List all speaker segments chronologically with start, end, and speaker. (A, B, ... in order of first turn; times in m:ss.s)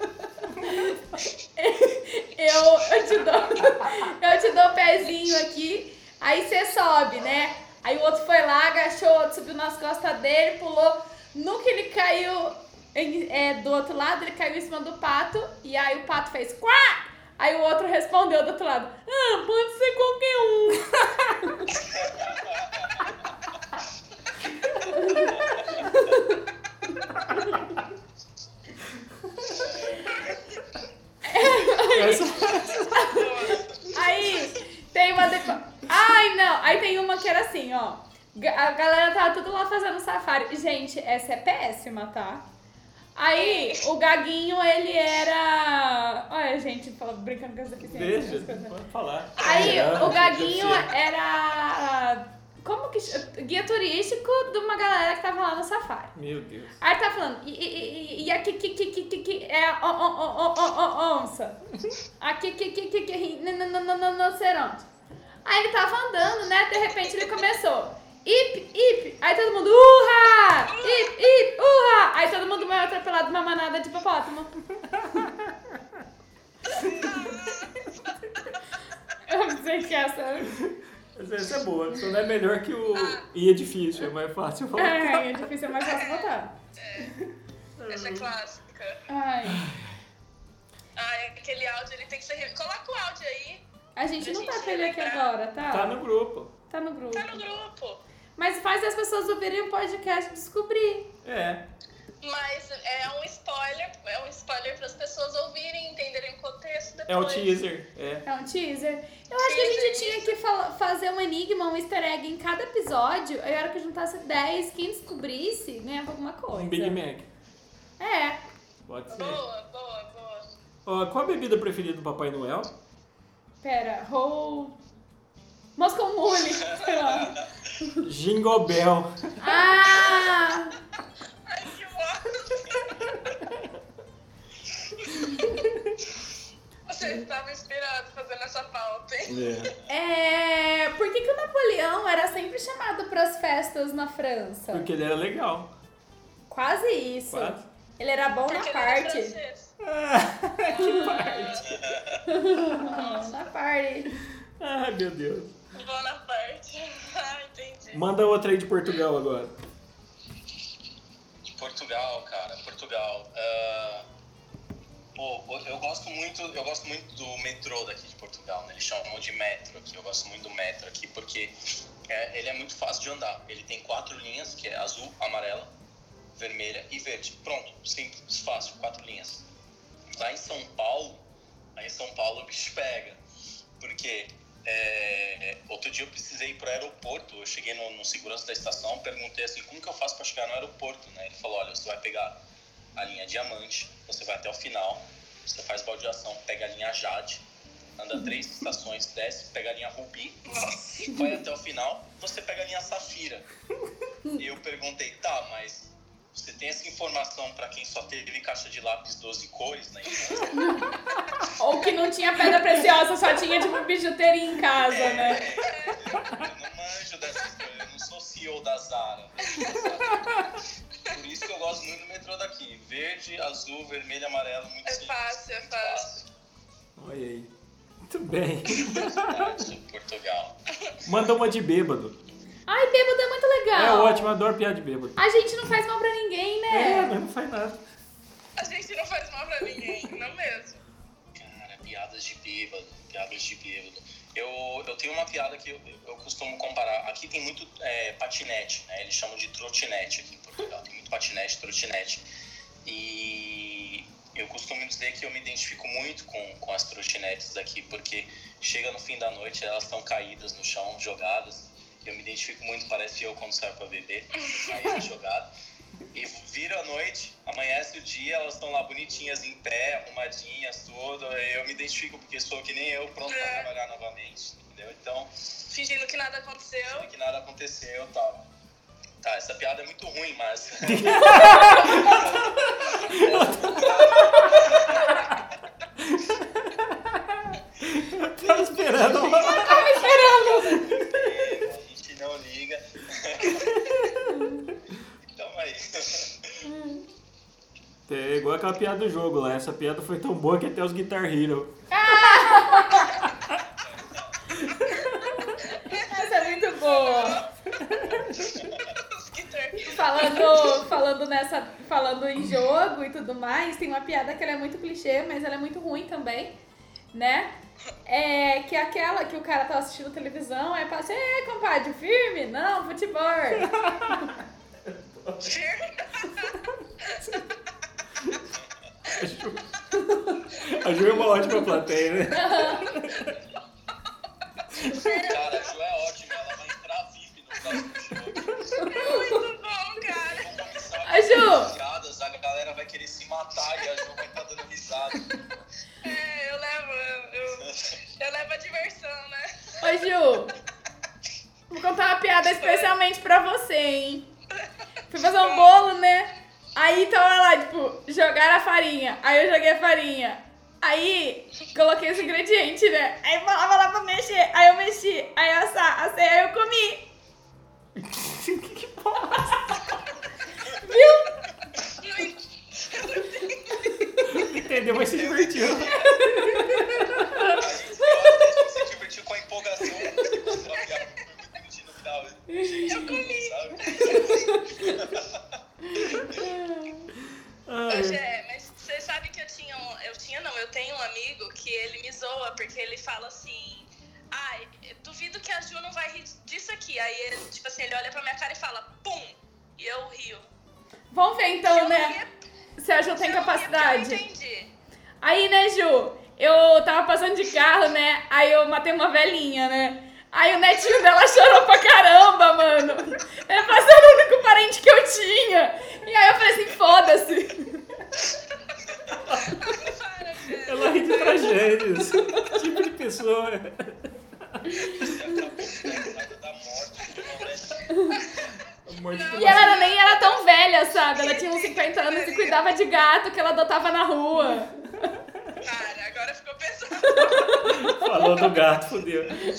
0:00.5-0:21.8 A
0:21.8-0:23.1 B
0:24.9-0:26.4 A
0:25.3-0:25.9 B
0:29.3-0:29.6 C
0:29.5-0:30.3 B
0:31.2-0:33.2 A
0:31.8-0:33.3 C
0:32.3-0:33.8 D
0:33.9-0:42.4 A
0:43.2-0:48.8 A
0:43.3-0:43.8 D
0:47.8-0:50.9 C
0:49.4-0:56.1 A
0:56.1-0:56.7 C
0:56.8-1:01.6 A
1:02.2-1:04.8 A
1:05.4-1:14.5 A
1:10.6-1:11.2 D
1:14.8-1:15.8 C
1:16.7-1:18.1 D
1:19.2-1:20.5 A
1:20.5-1:25.3 C
1:22.9-1:23.2 D
1:24.8-1:26.5 A
1:25.8-1:27.1 D
1:27.8-1:28.3 C
1:27.9-1:29.0 D
1:29.1-1:29.6 A
1:29.5-1:30.0 C
1:31.0-1:33.6 D
1:34.0-1:36.0 A
1:34.2-1:35.3 D
1:35.7-1:36.5 C
1:36.7-1:37.4 A
1:37.1-1:38.0 D
1:38.4-1:41.1 A
1:41.2-1:41.6 C
1:42.2-1:47.6 D
1:47.1-1:48.2 C
1:48.2-1:57.0 A
1:49.4-1:50.3 D
1:56.5-1:57.2 C
1:58.0-1:58.4 A
1:58.8-1:59.4 C
1:59.1-2:00.5 D
2:00.8-2:02.7 C
2:03.6-2:04.8 A
2:05.8-2:08.0 A
2:08.0-2:09.6 C
2:09.4-2:10.8 A
2:11.5-2:13.1 D
2:13.3-2:13.7 C
2:15.3-2:15.9 C
2:16.9-2:19.4 D
2:19.2-2:19.7 C
2:19.9-2:24.9 A
2:24.7-2:25.7 C
2:26.5-2:29.4 A
2:27.3-2:27.6 C
2:28.5-2:29.7 D
2:29.8-2:31.6 C
2:30.6-2:31.8 D
2:30.8-2:31.2 A
2:31.6-2:32.3 B
2:32.3-2:34.1 A
2:32.8-2:33.4 D
2:34.6-2:35.5 C
2:35.7-2:38.0 D
2:37.9-2:39.5 C
2:41.4-2:44.0 B
2:45.1-2:51.5 B
2:52.1-2:55.7 B
2:56.3-2:59.4 B
3:00.2-3:01.2 B
3:01.8-3:03.2 B
3:03.8-3:12.4 B
3:13.0-3:17.4 B
3:18.0-3:23.4 B
3:20.5-3:21.1 D
3:24.4-3:30.7 B
3:30.5-3:30.8 A
3:31.6-3:35.5 A
3:34.9-3:46.3 B
3:35.6-3:36.0 D
3:40.1-3:40.4 C
3:44.8-3:46.2 D
3:47.0-3:47.5 C
3:48.0-3:49.7 C
3:48.9-3:50.5 B
3:51.0-3:52.2 C
3:52.7-3:54.3 A
3:53.7-3:55.2 C
3:55.2-3:57.2 A
3:56.7-3:57.8 C
3:58.6-4:00.8 D
4:01.4-4:12.2 B
4:12.8-4:25.5 B
4:26.1-4:35.3 B
4:33.3-4:33.7 D
4:35.7-4:37.1 D
4:36.8-4:38.4 B
4:39.2-4:45.2 B
4:40.8-4:45.3 C
4:46.0-4:51.0 C
4:48.4-4:53.8 B
4:49.4-4:50.9 A
4:53.4-4:54.5 C
4:54.3-4:54.6 A
4:55.3-4:56.6 B
4:56.6-4:57.0 A
4:58.1-5:01.7 C
5:01.9-5:03.2 A
5:03.6-5:04.6 B
5:04.5-5:05.6 C
5:05.7-5:07.5 D
5:05.9-5:07.4 A
5:07.8-5:08.6 C
5:08.0-5:08.9 B
5:08.9-5:10.7 D
5:09.8-5:16.6 A
5:17.1-5:17.5 A
5:18.0-5:24.3 A
5:23.5-5:25.5 C
5:25.4-5:27.2 D
5:26.8-5:27.5 C
5:29.1-5:29.7 C
5:30.0-5:30.4 A
5:30.3-5:33.4 C
5:32.3-5:33.0 A
5:34.7-5:35.0 C
5:34.9-5:35.7 D
5:35.2-5:38.6 B
5:38.3-5:38.6 C
5:38.8-5:39.4 A
5:38.8-5:40.6 D
5:40.3-5:45.4 B
5:41.0-5:41.7 A
5:46.0-5:49.8 D
5:49.8-5:50.5 A
5:51.7-5:54.3 A
5:52.6-5:52.9 D
5:55.1-6:07.1 A
5:55.4-5:55.7 D
6:08.0-6:09.9 C
6:10.8-6:11.3 A
6:12.0-6:14.1 D
6:14.2-6:17.6 C
6:15.1-6:16.4 B
6:16.2-6:16.8 A
6:17.4-6:25.4 B
6:22.5-6:23.2 A
6:22.8-6:24.4 D
6:24.1-6:25.0 A
6:25.8-6:27.1 A
6:27.7-6:28.2 C
6:27.9-6:40.5 D
6:41.1-6:42.2 A
6:41.7-6:42.4 D
6:42.8-6:44.2 A
6:43.1-6:44.7 D
6:45.2-6:58.0 A
6:59.2-6:59.6 C
6:59.5-7:01.7 D
7:00.6-7:05.1 C
7:05.0-7:07.8 B
7:07.9-7:08.2 A
7:08.8-7:09.8 C
7:09.1-7:10.5 D
7:09.4-7:14.7 A
7:11.1-7:12.6 D
7:15.6-7:17.7 D
7:17.3-7:18.4 A
7:17.6-7:19.4 C